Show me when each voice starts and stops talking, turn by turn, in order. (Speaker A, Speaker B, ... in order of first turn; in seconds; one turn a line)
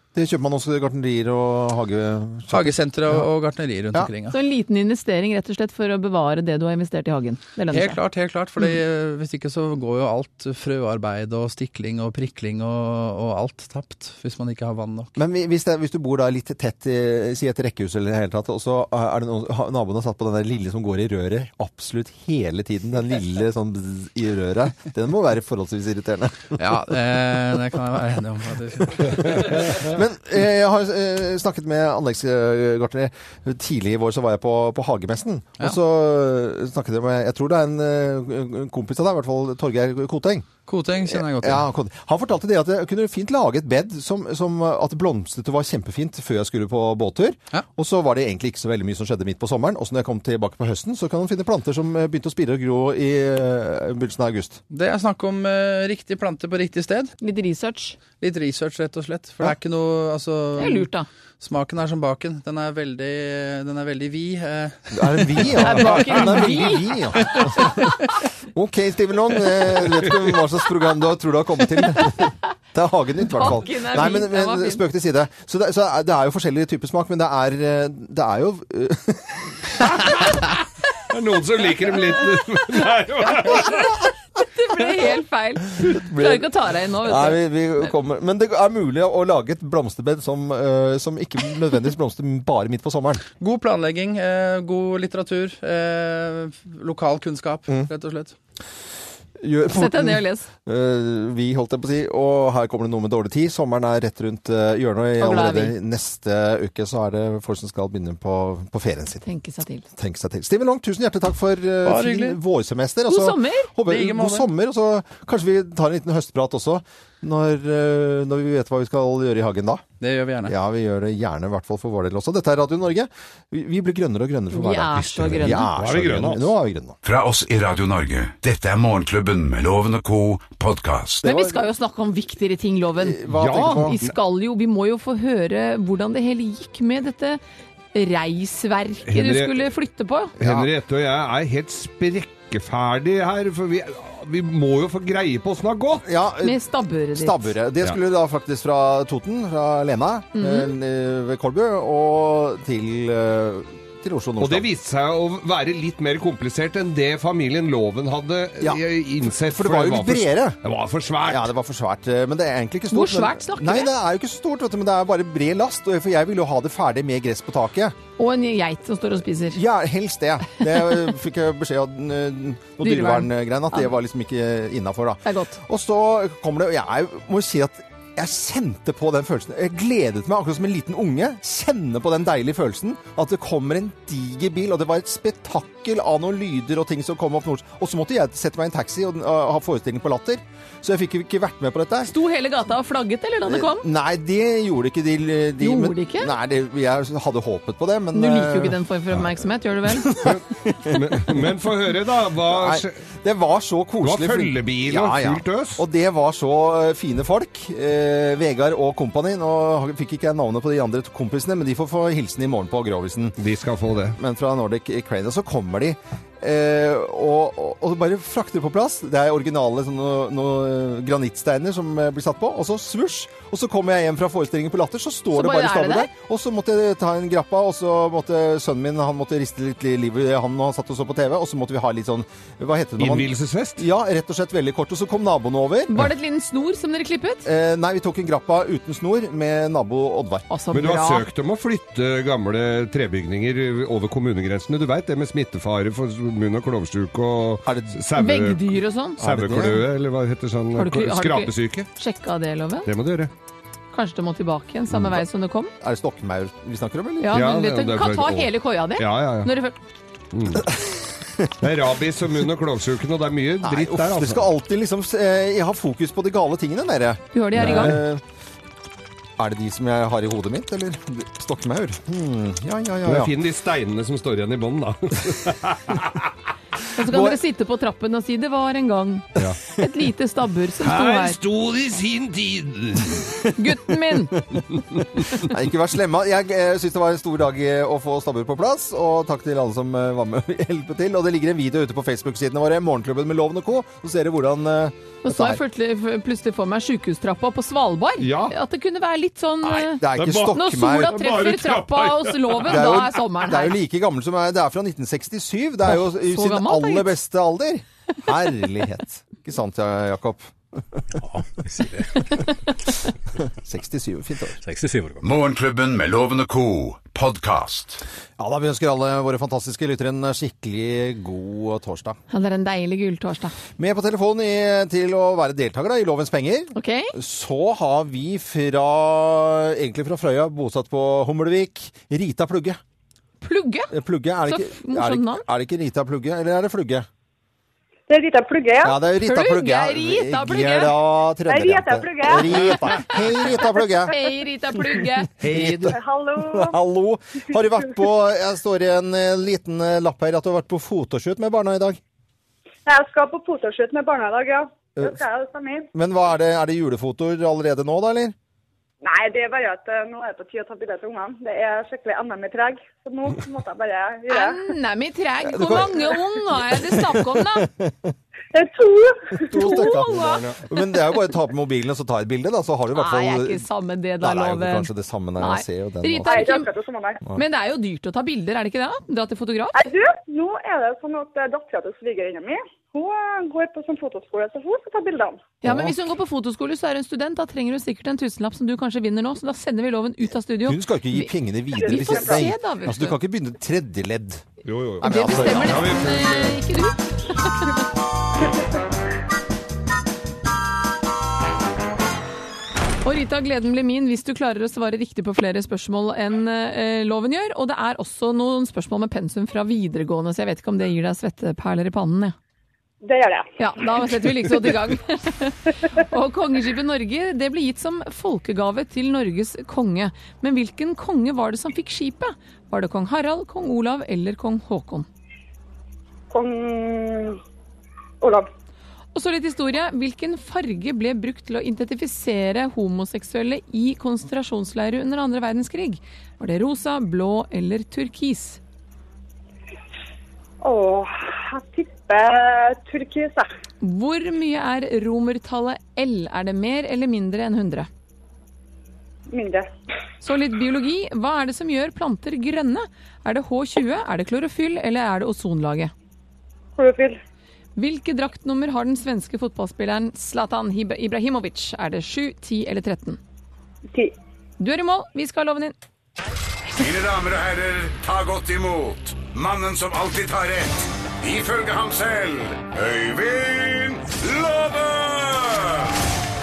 Speaker A: 0.1-3.3
Speaker B: 2.5-4.4
Speaker C: 4.3-8.0
Speaker B: 7.7-15.2
Speaker A: 15.2-27.0
Speaker B: 26.6-29.5
Speaker A: 28.8-40.5
Speaker B: 40.7-41.6
Speaker A: 41.0-54.6
Speaker B: 54.7-57.1
Speaker C: 57.2-58.0
Speaker B: 58.2-65.5
Speaker C: 60.6-61.1
Speaker A: 64.9-68.0
Speaker C: 65.6-67.8
Speaker A: 68.5-79.9
Speaker C: 73.3-74.8
Speaker D: 80.0-80.4
Speaker D: 81.1-83.9
Speaker C: 83.2-87.9
Speaker A: 85.8-86.5
Speaker A: 87.0-93.2
Speaker B: 93.4-98.4
Speaker A: 99.4-109.2
Speaker C: 99.7-100.5
Speaker C: 105.2-105.8
Speaker C: 109.2-109.9
Speaker A: 109.9-119.8
Speaker B: 111.8-112.4
Speaker C: 113.1-113.7
Speaker B: 113.8-114.5
Speaker B: 120.0-120.5
Speaker A: 120.5-127.0
Speaker C: 124.5-125.7
Speaker D: 125.8-126.5
Speaker E: 127.0-131.3
Speaker A: 131.2-131.6
Speaker C: 131.2-137.4
Speaker A: 133.0-134.0
Speaker D: 133.4-134.1
Speaker C: 137.9-140.3
Speaker D: 139.1-139.7
Speaker A: 140.4-140.7
Speaker D: 140.4-146.1
Speaker A: 146.0-154.7
Speaker C: 146.4-147.5
Speaker C: 150.3-150.7
Speaker D: 154.4-161.5
Speaker A: 159.4-160.6
Speaker A: 161.2-168.0
Speaker C: 162.9-163.9
Speaker C: 168.2-169.6
Speaker A: 169.5-192.1
Speaker C: 172.8-173.9
Speaker C: 175.2-175.6
Speaker C: 192.0-193.9
Speaker A: 193.5-198.8
Speaker C: 195.6-196.3
Speaker C: 198.1-200.3
Speaker A: 199.9-201.0
Speaker D: 200.2-202.9
Speaker A: 202.5-213.4
Speaker D: 204.0-205.8
Speaker D: 213.4-214.2
Speaker A: 214.2-236.1
Speaker C: 225.3-226.1
Speaker D: 233.0-233.8
Speaker C: 235.9-237.5
Speaker A: 237.4-240.5
Speaker C: 240.5-241.3
Speaker D: 240.7-251.9
Speaker A: 247.7-248.0
Speaker C: 248.2-249.2
Speaker A: 249.2-249.8
Speaker C: 250.8-252.9
Speaker D: 252.9-253.3
Speaker C: 253.9-255.7
Speaker A: 255.8-257.4
Speaker C: 257.2-259.8
Speaker D: 257.3-259.5
Speaker D: 260.3-260.7
Speaker A: 260.7-261.5
Speaker D: 261.6-264.4
Speaker A: 263.6-268.2
Speaker C: 267.3-267.9
Speaker D: 267.6-268.0
Speaker A: 269.4-273.3
Speaker D: 273.1-276.3
Speaker C: 276.9-281.4
Speaker A: 277.0-277.4
Speaker D: 280.8-283.3
Speaker C: 283.6-284.4
Speaker A: 285.4-295.6
Speaker C: 295.2-303.8
Speaker D: 298.2-298.6
Speaker A: 299.6-301.2
Speaker D: 300.2-303.0
Speaker A: 302.7-311.1
Speaker C: 305.9-307.1
Speaker F: 311.2-312.4
Speaker A: 313.6-314.6
Speaker F: 314.6-315.2
Speaker E: 315.2-318.0
Speaker A: 318.4-322.2
Speaker C: 322.3-323.6
Speaker A: 323.8-332.8
Speaker C: 326.8-327.1
Speaker C: 333.4-333.9
Speaker A: 333.9-337.1
Speaker C: 334.5-335.4
Speaker G: 338.1-338.9
Speaker A: 338.8-344.1
Speaker C: 339.2-340.9
Speaker G: 341.5-343.2
Speaker C: 343.8-345.7
Speaker A: 345.4-352.0
Speaker G: 345.5-346.8
Speaker G: 352.9-355.9
Speaker A: 355.9-358.4
Speaker G: 359.0-364.6
Speaker C: 364.3-367.7
Speaker A: 365.4-368.1
Speaker G: 368.5-369.9
Speaker A: 369.4-373.7
Speaker C: 369.6-370.4
Speaker D: 370.1-370.6
Speaker C: 372.9-376.7
Speaker A: 374.2-376.5
Speaker G: 376.3-377.2
Speaker C: 377.3-379.8
Speaker G: 379.8-385.4
Speaker C: 385.6-393.2
Speaker A: 385.6-386.0
Speaker A: 390.6-394.4
Speaker G: 391.8-392.5
Speaker D: 394.6-396.6
Speaker A: 395.0-395.9
Speaker C: 395.0-397.8
Speaker C: 403.0-412.4
Speaker G: 413.0-414.2
Speaker C: 413.6-425.1
Speaker G: 426.3-427.4
Speaker G: 428.2-428.5
Speaker C: 429.1-438.6
Speaker G: 440.6-443.5
Speaker C: 443.8-447.9
Speaker G: 449.3-449.7
Speaker C: 450.2-455.9
Speaker G: 456.8-457.2
Speaker C: 457.8-463.2
Speaker C: 464.6-465.8
Speaker E: 466.8-475.9